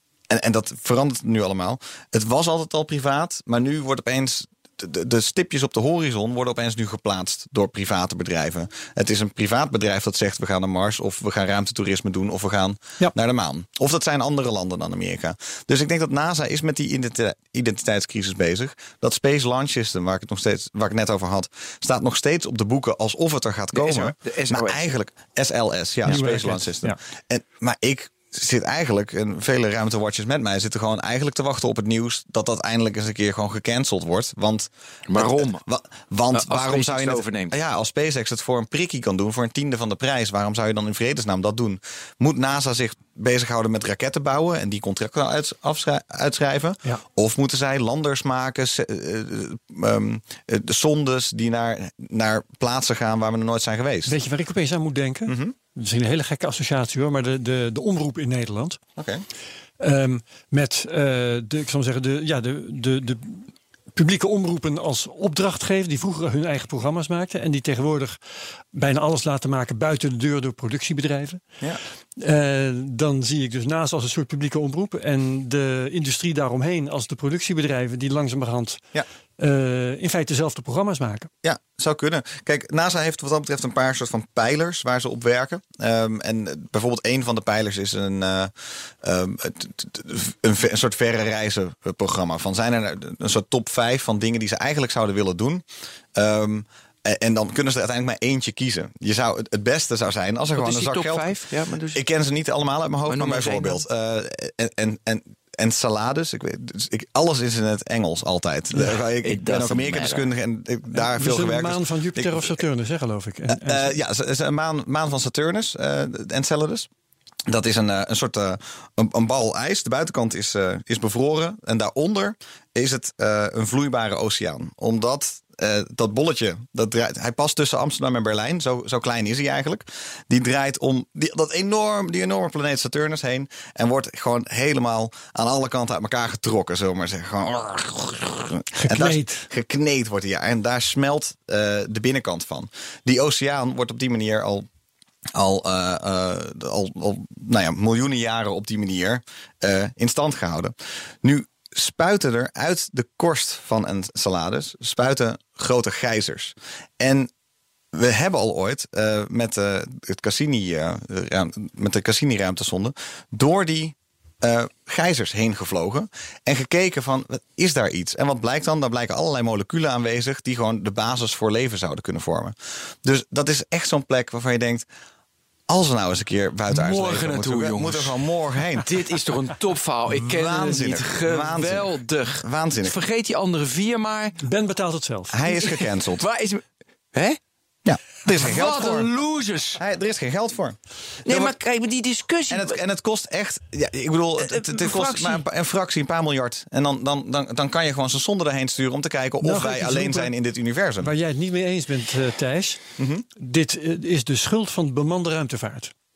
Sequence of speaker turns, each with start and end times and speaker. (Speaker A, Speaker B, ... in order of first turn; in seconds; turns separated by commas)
Speaker A: 0.3-54.1, Speaker B: 23.7-24.8, Speaker C: 26.1-27.0, Speaker B: 35.1-35.6, Speaker B: 36.3-37.5, Speaker C: 54.0-58.8, Speaker A: 55.3-55.5, Speaker A: 59.0-59.2, Speaker C: 59.8-68.2, Speaker C: 68.7-71.4, Speaker C: 72.2-78.8, Speaker C: 79.4-81.3, Speaker A: 81.4-95.6, Speaker A: 96.1-101.3, Speaker B: 100.6-102.0, Speaker A: 101.9-112.6, Speaker B: 103.1-103.8, Speaker B: 108.9-110.3, Speaker C: 110.9-114.0, Speaker A: 113.5-116.9, Speaker A: 117.5-144.7, Speaker C: 138.8-139.5, Speaker A: 145.3-157.3, Speaker A: 157.9-174.9, Speaker A: 175.7-178.9, Speaker B: 176.7-178.2, Speaker B: 178.8-184.4, Speaker A: 180.1-182.9, Speaker C: 184.4-185.4, Speaker A: 185.3-186.2, Speaker B: 185.5-187.4, Speaker A: 187.8-189.1, Speaker B: 188.2-189.8, Speaker A: 189.8-191.6, Speaker B: 191.2-192.8, Speaker A: 192.5-201.1, Speaker B: 194.4-195.4, Speaker C: 199.4-200.3, Speaker C: 201.0-202.8, Speaker A: 203.0-203.2, Speaker C: 203.4-205.9